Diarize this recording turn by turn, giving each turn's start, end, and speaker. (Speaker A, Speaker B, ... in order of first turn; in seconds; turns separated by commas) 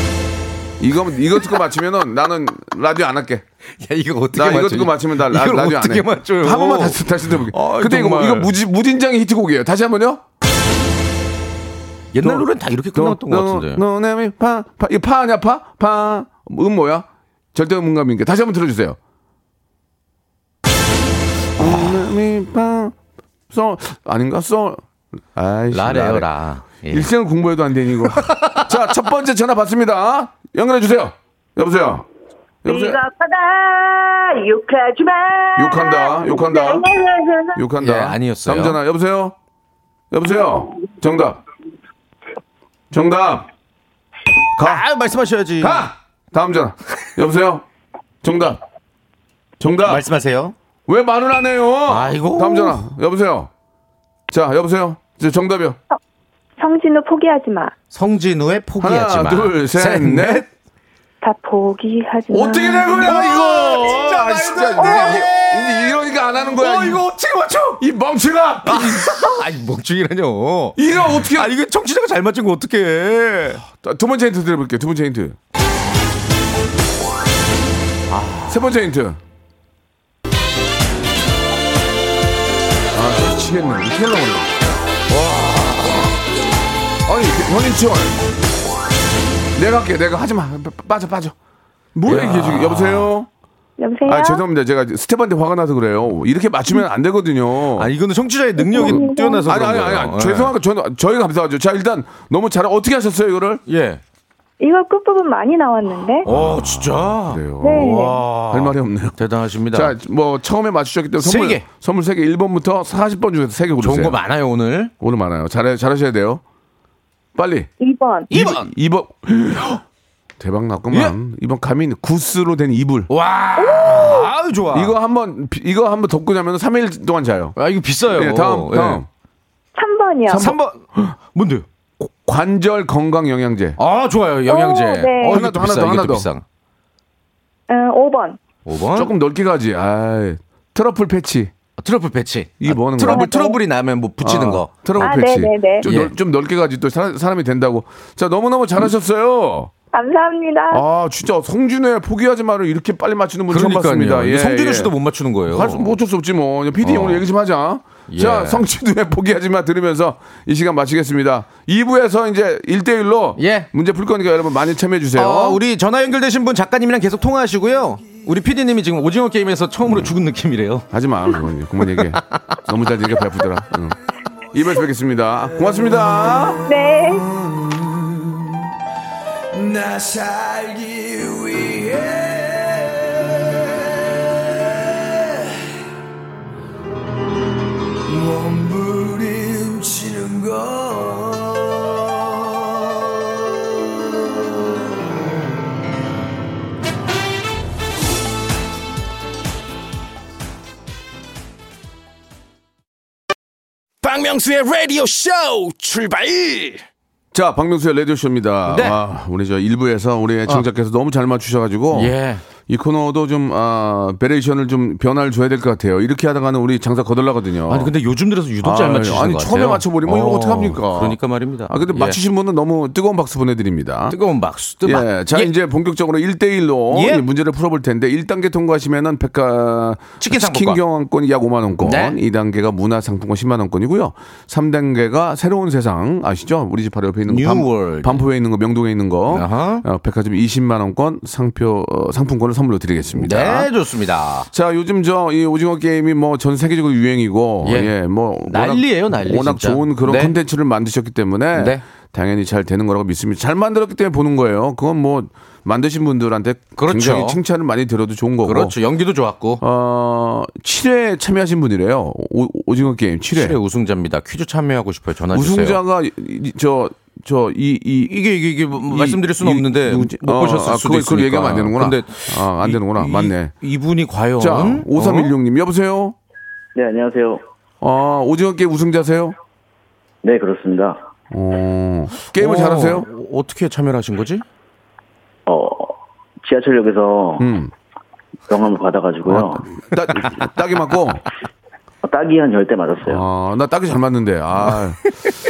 Speaker A: 0.8-3.5, Speaker B: 3.8-8.5, Speaker A: 4.3-10.2, Speaker B: 12.1-13.8, Speaker A: 12.2-19.0, Speaker A: 21.6-22.9, Speaker B: 21.6-21.9, Speaker A: 23.5-24.8, Speaker A: 25.3-26.3, Speaker B: 25.7-27.1, Speaker A: 26.9-32.1, Speaker B: 28.1-28.7, Speaker A: 32.6-33.0, Speaker C: 32.7-37.6, Speaker A: 35.6-36.9, Speaker A: 37.5-39.4, Speaker B: 37.8-38.8, Speaker A: 40.1-41.4, Speaker A: 42.9-43.5, Speaker A: 44.6-44.8, Speaker B: 44.6-45.9, Speaker A: 45.6-47.6, Speaker A: 48.2-48.6, Speaker A: 49.6-50.0, Speaker B: 49.9-50.5, Speaker A: 50.9-53.5, Speaker B: 51.9-52.8, Speaker A: 54.3-55.8, Speaker C: 56.6-57.7, Speaker B: 57.9-60.5, Speaker A: 58.8-60.5, Speaker C: 61.2-63.2, Speaker A: 62.3-67.0, Speaker B: 63.0-67.8, Speaker C: 64.8-65.3, Speaker A: 67.8-69.4, Speaker B: 68.7-73.6, Speaker A: 70.8-71.5, Speaker A: 73.7-75.4, Speaker B: 78.1-78.6, Speaker A: 78.5-79.2, Speaker A: 82.9-84.7, Speaker B: 85.1-86.0, Speaker A: 87.1-88.2, Speaker A: 89.6-91.4, Speaker A: 92.0-93.3, Speaker B: 92.1-93.1, Speaker C: 93.8-94.4, Speaker A: 94.0-97.9, Speaker B: 97.8-100.5, Speaker C: 98.6-99.5, Speaker A: 98.8-103.6, Speaker B: 103.7-104.0, Speaker C: 104.6-106.3, Speaker B: 106.2-109.9, Speaker A: 106.3-114.2, Speaker C: 107.6-108.2, Speaker B: 111.2-111.7, Speaker B: 113.8-114.9, Speaker A: 115.0-116.4, Speaker A: 117.3-117.7, Speaker C: 117.8-118.3, Speaker B: 118.3-118.7, Speaker A: 118.3-119.8, Speaker A: 120.4-123.1, Speaker B: 123.1-124.9, Speaker C: 123.6-124.3, Speaker A: 124.7-127.6, Speaker B: 127.6-129.0, Speaker A: 128.1-129.1, Speaker C: 129.8-130.5, Speaker A: 130.3-131.2, Speaker B: 130.3-131.7, Speaker A: 132.0-133.8, Speaker B: 133.8-136.4, Speaker C: 134.5-135.4, Speaker A: 135.3-136.3, Speaker C: 137.7-138.4, Speaker B: 138.7-139.1, Speaker A: 138.9-141.5, Speaker B: 141.8-145.2, Speaker A: 142.6-143.5, Speaker C: 143.0-143.6, Speaker A: 144.2-149.7, Speaker C: 145.0-145.9, Speaker B: 145.8-146.1, Speaker C: 149.9-150.8, Speaker A: 150.7-154.9, Speaker B: 153.5-155.9, Speaker A: 155.5-165.6, Speaker B: 156.8-157.2, Speaker B: 158.1-158.6, Speaker B: 163.4-163.7, Speaker B: 165.2-170.9, Speaker A: 169.9-170.1, Speaker A: 170.9-174.0, Speaker B: 171.8-172.6, Speaker A: 174.5-176.7, Speaker C: 176.7-177.3, Speaker A: 177.2-178.4, Speaker A: 179.6-182.6, Speaker A: 188.1-191.6, Speaker D: 204.0-206.8, Speaker A: 207.3-212.2, Speaker B: 208.7-209.0, Speaker B: 211.9-212.4, Speaker A: 212.7-217.9, Speaker B: 217.7-222.2, Speaker A: 218.6-221.2, Speaker A: 221.7-224.2, Speaker B: 224.1-225.5, Speaker A: 224.8-243.7, Speaker B: 226.9-227.2, Speaker B: 230.2-230.8, Speaker B: 231.8-232.2, Speaker B: 237.3-238.2, Speaker B: 239.3-239.8, Speaker B: 243.2-244.5, Speaker A: 244.5-258.8, Speaker B: 247.6-247.9, Speaker B: 248.5-250.3, Speaker B: 251.6-251.8, Speaker B: 256.8-257.4, Speaker B: 258.4-259.6, Speaker A: 259.6-263.6, Speaker B: 263.3-265.8, Speaker A: 265.3-268.2, Speaker B: 268.1-275.3, Speaker A: 268.8-273.5, Speaker A: 274.4-276.2, Speaker E: 276.8-277.4, Speaker A: 277.8-279.4, Speaker E: 280.2-281.0, Speaker A: 281.3-283.1, Speaker B: 282.4-284.4, Speaker E: 285.5-287.5, Speaker A: 287.4-287.7, Speaker E: 288.5-289.6, Speaker A: 289.2-291.2, Speaker E: 292.0-293.2, Speaker A: 293.1-295.1